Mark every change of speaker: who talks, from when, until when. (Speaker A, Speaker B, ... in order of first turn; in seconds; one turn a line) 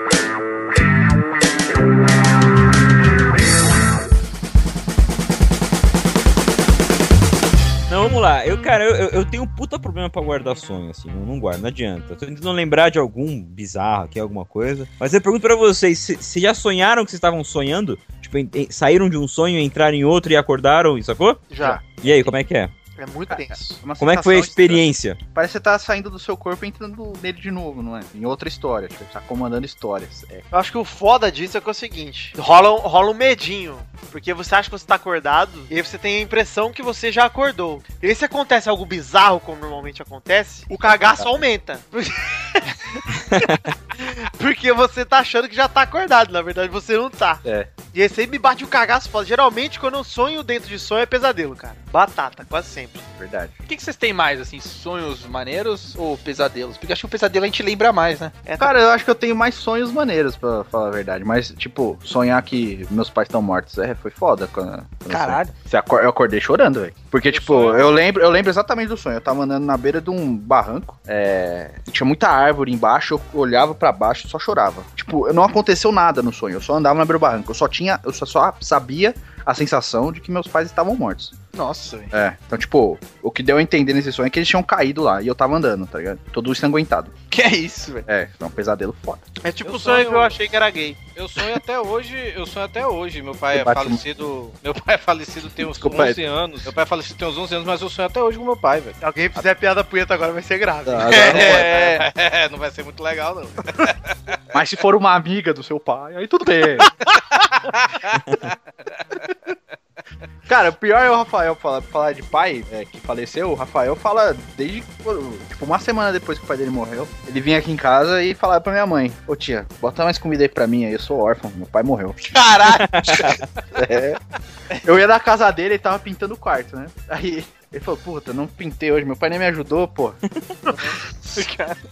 Speaker A: 7.9-22.7
Speaker B: 21.5-21.8
Speaker C: 21.6-22.2
Speaker B: 23.0-23.8
Speaker C: 23.3-30.4
Speaker A: 24.0-25.2
Speaker B: 30.5-53.0
Speaker C: 40.8-41.3
Speaker A: 43.3-43.6
Speaker C: 47.4-47.7
Speaker C: 53.1-53.5
Speaker D: 53.7-58.4
Speaker B: 58.5-58.7
Speaker C: 58.6-81.4
Speaker D: 65.1-65.5
Speaker B: 67.3-67.8
Speaker D: 81.5-82.1
Speaker C: 82.1-87.2
Speaker D: 87.3-88.1
Speaker C: 88.1-89.2
Speaker B: 89.4-91.0
Speaker E: 89.6-90.3
Speaker E: 91.2-99.0
Speaker C: 93.5-94.0
Speaker C: 95.7-96.2
Speaker B: 99.0-101.9
Speaker C: 100.8-101.8
Speaker E: 101.1-104.1
Speaker C: 104.5-106.9
Speaker B: 106.9-107.2
Speaker E: 107.6-108.4
Speaker C: 110.5-122.3
Speaker D: 122.3-123.4
Speaker A: 122.7-123.4
Speaker C: 123.7-124.2
Speaker C: 124.8-130.2
Speaker B: 130.7-130.9
Speaker D: 131.3-131.8